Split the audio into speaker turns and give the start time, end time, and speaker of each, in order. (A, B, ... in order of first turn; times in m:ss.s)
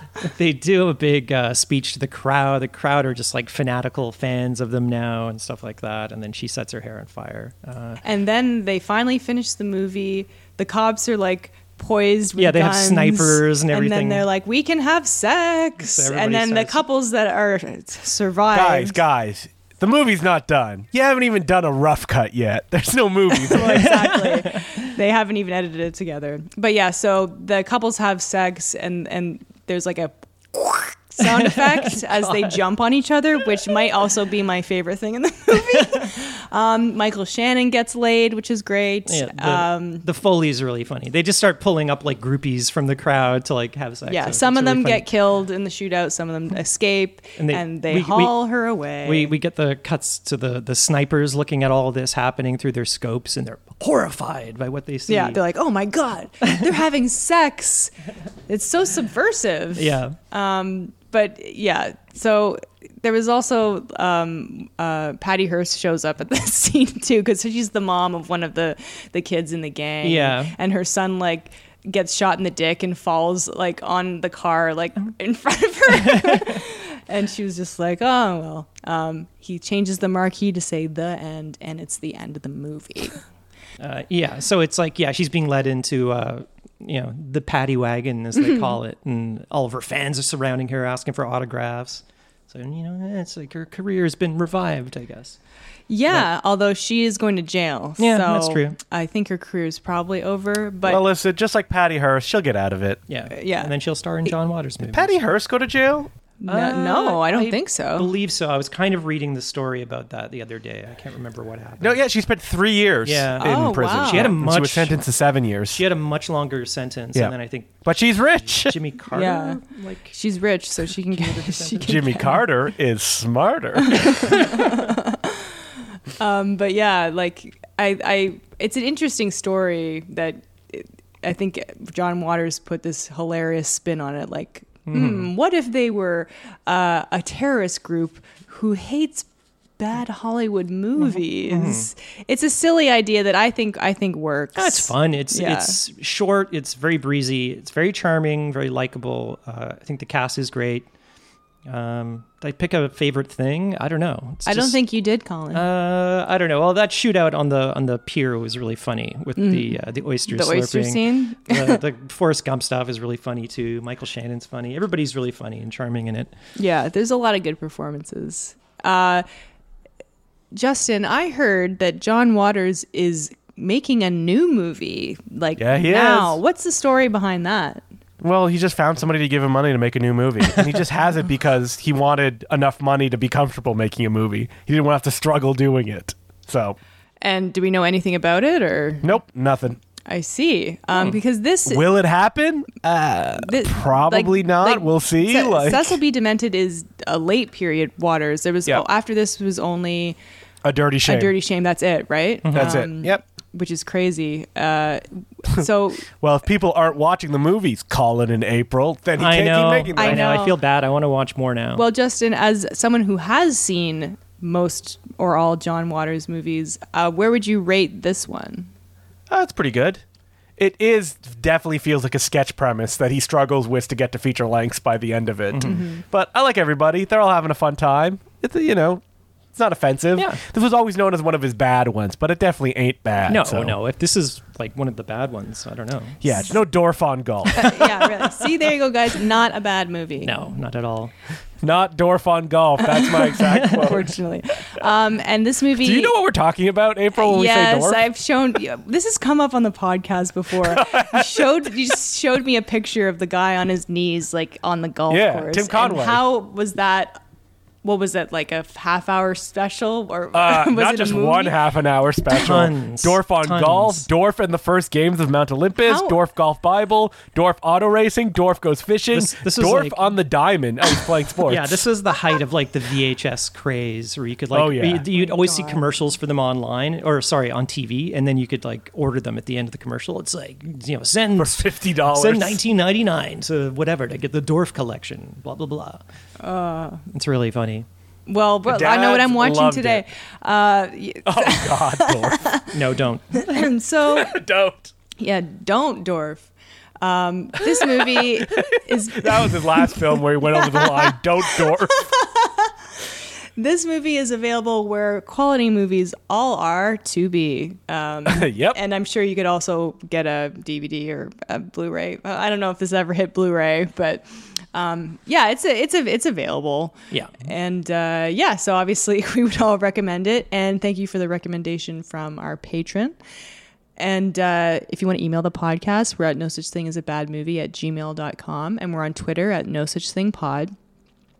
0:00.2-0:08.0 A
0:08.0-0:19.0 B
0:12.4-0:14.2 A
0:15.8-0:16.8 A
0:18.5-0:24.0 C
0:23.4-0:40.0 B
0:23.7-0:24.8 A
0:31.2-0:32.6 A
0:39.1-0:45.0 A
0:44.1-0:49.3 B
0:47.4-0:48.3 A
0:49.0-0:55.4 A
0:55.1-0:57.9 B
0:58.5-1:23.2 B
0:59.7-1:00.2 A
1:10.0-1:10.5 A
1:16.0-1:16.6 A
1:23.8-1:35.4 A
1:28.4-1:28.7 B
1:35.9-1:41.0 B
1:38.0-1:38.8 A
1:40.8-1:43.0 C
1:43.1-1:45.2 A
1:43.3-1:43.7 B
1:44.9-1:46.1 C
1:46.4-1:48.1 B
1:46.5-1:52.0 A
1:51.8-1:55.8 C
1:53.0-1:55.0 A
1:53.4-1:54.4 B
1:55.7-1:57.8 A
1:57.1-1:58.7 C
1:58.4-2:00.1 A
1:59.1-1:59.6 B
2:00.1-2:02.4 B
2:01.1-2:02.2 A
2:01.8-2:04.5 C
2:03.8-2:05.5 B
2:04.0-2:04.8 A
2:06.2-2:19.2 B
2:14.9-2:15.3 A
2:19.8-2:25.8 B
2:21.0-2:21.9 A
2:24.5-2:30.9 A
2:31.7-2:34.8 A
2:34.4-2:35.6 B
2:35.5-2:46.3 A
2:39.4-2:39.8 B
2:40.3-2:41.8 B
2:46.6-2:49.2 B
2:50.5-2:57.8 B
2:55.6-2:56.4 C
2:58.2-3:06.8 C
3:07.2-3:09.1 B
3:09.0-3:09.8 C
3:10.0-3:11.8 B
3:11.7-3:16.0 C
3:13.4-3:20.2 B
3:20.6-3:21.3 C
3:21.0-3:26.1 B
3:22.4-3:22.8 A
3:22.5-3:23.2 C
3:25.5-3:30.3 C
3:29.2-3:31.8 A
3:30.0-3:30.6 B
3:31.7-3:38.7 B
3:39.3-3:40.0 C
3:40.6-3:49.0 C
3:45.5-3:45.8 A
3:45.6-3:46.0 B
3:49.6-3:53.8 C
3:50.2-3:50.4 A
3:53.3-3:56.4 A
3:56.2-3:57.6 C
3:57.5-3:58.4 A
3:57.5-4:00.3 B
4:00.2-4:01.1 A
4:01.6-4:04.1 C
4:02.9-4:06.1 B
4:03.5-4:03.8 A
4:05.8-4:08.0 C
4:07.2-4:17.2 B
4:10.6-4:11.5 C
4:15.1-4:16.2 C
4:17.8-4:21.6 B
4:20.3-4:31.8 C
4:22.3-4:24.1 A
4:25.8-4:26.2 B
4:29.1-4:30.1 A
4:31.4-4:46.0 A
4:34.5-4:35.0 C
4:35.1-4:35.9 B
4:41.4-4:42.6 C
4:46.4-4:47.0 B
4:47.1-4:47.8 A
4:48.3-4:52.7 B
4:48.6-4:50.0 C
4:51.2-4:52.5 C
4:52.7-4:53.7 A
4:53.3-4:54.4 B
4:54.0-4:54.9 C
4:55.2-4:56.4 B
4:57.0-5:02.7 B
4:57.8-5:02.1 C
5:03.6-5:23.2 B
5:08.3-5:08.8 C
5:17.1-5:17.4 A
5:24.0-5:30.7 B